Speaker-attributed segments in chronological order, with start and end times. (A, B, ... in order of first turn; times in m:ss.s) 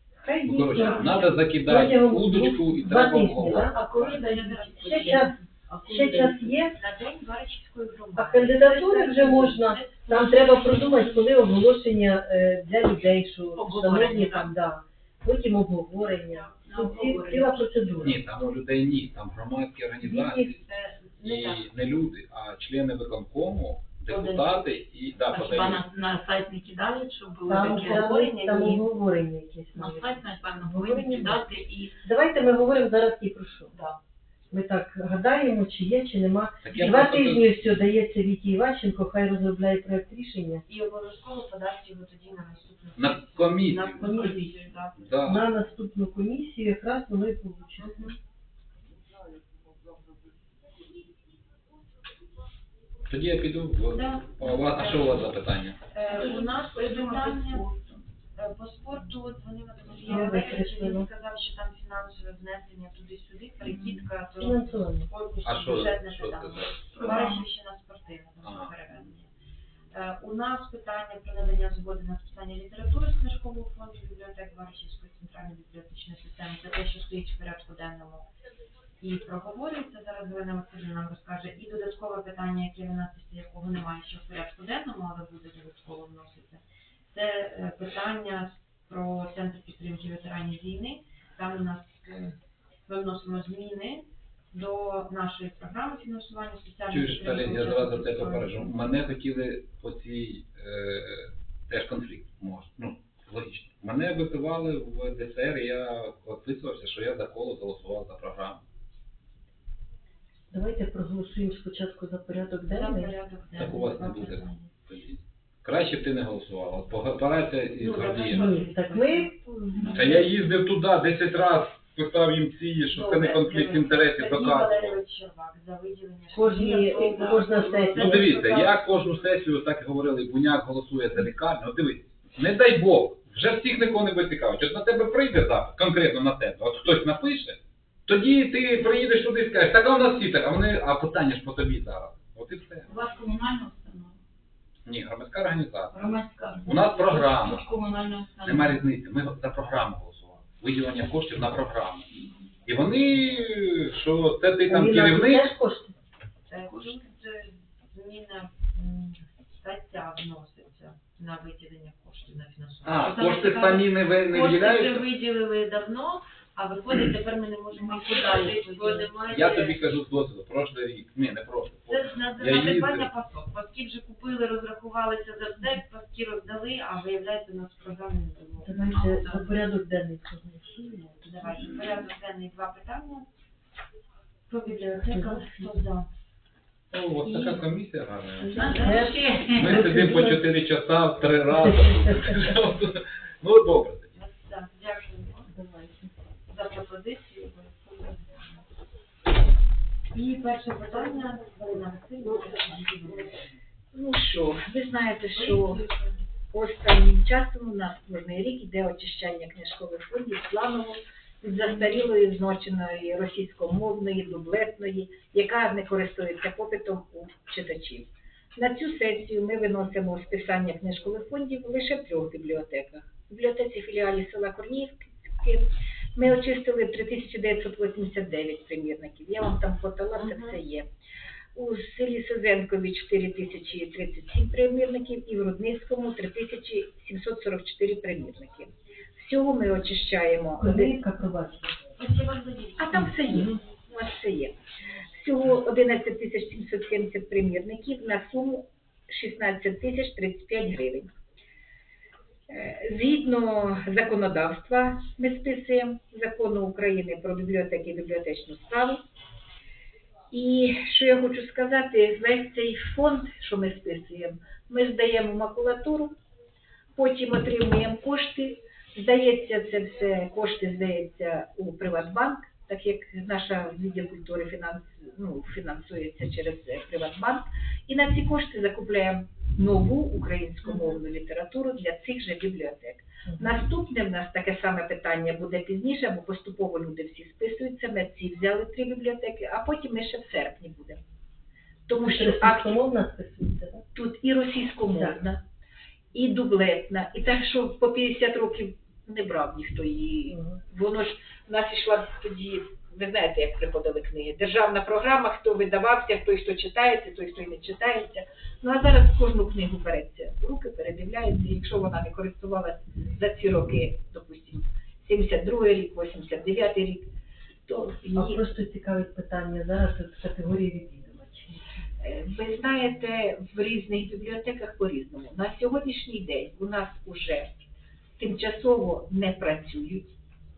0:00.2-0:03.8 A
0:00.4-0:04.2 B
0:03.5-0:06.6 C
0:04.0-0:05.3 D
0:04.7-0:05.3 A
0:05.8-0:06.8 A
0:06.7-0:11.2 D
0:08.1-0:18.2 A
0:13.5-0:14.5 C
0:16.5-0:18.0 C
0:18.0-0:20.6 B
0:20.0-0:21.7 D
0:21.2-0:25.8 B
0:24.1-0:24.7 D
0:25.3-0:28.0 C
0:27.5-0:31.4 A
0:27.6-0:28.8 D
0:29.7-0:32.0 C
0:32.0-0:33.7 A
0:33.7-0:34.0 D
0:34.5-0:40.6 A
0:36.6-0:37.5 B
0:40.7-0:44.9 D
0:43.0-0:44.1 B
0:44.0-0:44.4 A
0:44.2-0:44.8 C
0:45.0-0:45.5 B
0:45.2-0:48.0 A
0:47.8-0:48.1 D
0:53.1-0:55.8 B
0:53.9-0:55.3 D
0:55.9-0:57.6 D
0:56.0-0:58.0 C
0:58.4-1:09.3 D
1:00.0-1:01.1 A
1:03.6-1:04.1 C
1:04.4-1:05.1 A
1:05.4-1:06.8 B
1:06.8-1:07.5 C
1:08.4-1:08.7 B
1:09.9-1:18.3 D
1:19.0-1:32.3 D
1:32.8-1:38.8 D
1:36.9-1:48.6 B
1:50.5-1:53.2 A
1:52.6-1:54.7 D
1:53.6-1:58.5 B
1:57.8-2:00.2 D
1:58.1-1:59.3 A
1:59.7-2:00.3 C
1:59.9-2:05.0 B
2:02.9-2:09.3 D
2:06.3-2:08.3 A
2:06.9-2:07.6 C
2:08.0-2:22.8 B
2:22.9-2:24.2 C
2:24.8-2:26.0 B
2:25.9-2:28.8 C
2:26.7-2:27.7 B
2:28.4-2:32.0 B
2:32.6-2:35.5 B
2:34.7-2:35.9 A
2:36.5-2:49.9 D
2:36.7-2:37.0 C
2:42.8-2:45.1 B
2:47.7-2:49.1 C
2:49.2-2:53.1 B
2:51.9-2:59.5 D
2:58.6-3:01.3 A
2:58.7-2:59.4 C
3:01.2-3:03.3 D
3:01.5-3:01.9 C
3:04.5-3:06.1 D
3:05.1-3:05.8 A
3:06.9-3:08.6 B
3:07.2-3:07.6 D
3:08.4-3:09.4 D
3:08.4-3:09.8 C
3:08.8-3:10.4 A
3:09.6-3:14.1 B
3:11.5-3:12.8 A
3:14.1-3:15.5 D
3:15.5-3:16.1 A
3:16.5-3:18.6 D
3:20.1-3:23.4 D
3:23.9-3:25.8 E
3:25.4-3:26.1 D
3:26.5-3:50.9 E
3:50.2-3:50.6 D
3:51.5-4:00.9 E
4:00.6-4:01.7 A
4:02.0-4:03.5 D
4:02.8-4:04.6 E
4:05.2-4:11.1 E
4:12.5-4:19.0 E
4:20.3-4:26.1 E
4:27.0-4:51.0 E
4:43.2-4:43.5 A
4:51.9-4:52.8 E
4:51.9-4:53.8 A
4:53.9-4:55.4 E
4:54.9-4:55.2 A
4:56.1-5:17.1 E
5:00.3-5:00.6 A
5:17.6-5:18.4 E
5:18.1-5:21.6 A
5:22.0-5:27.5 E
5:28.2-5:30.2 E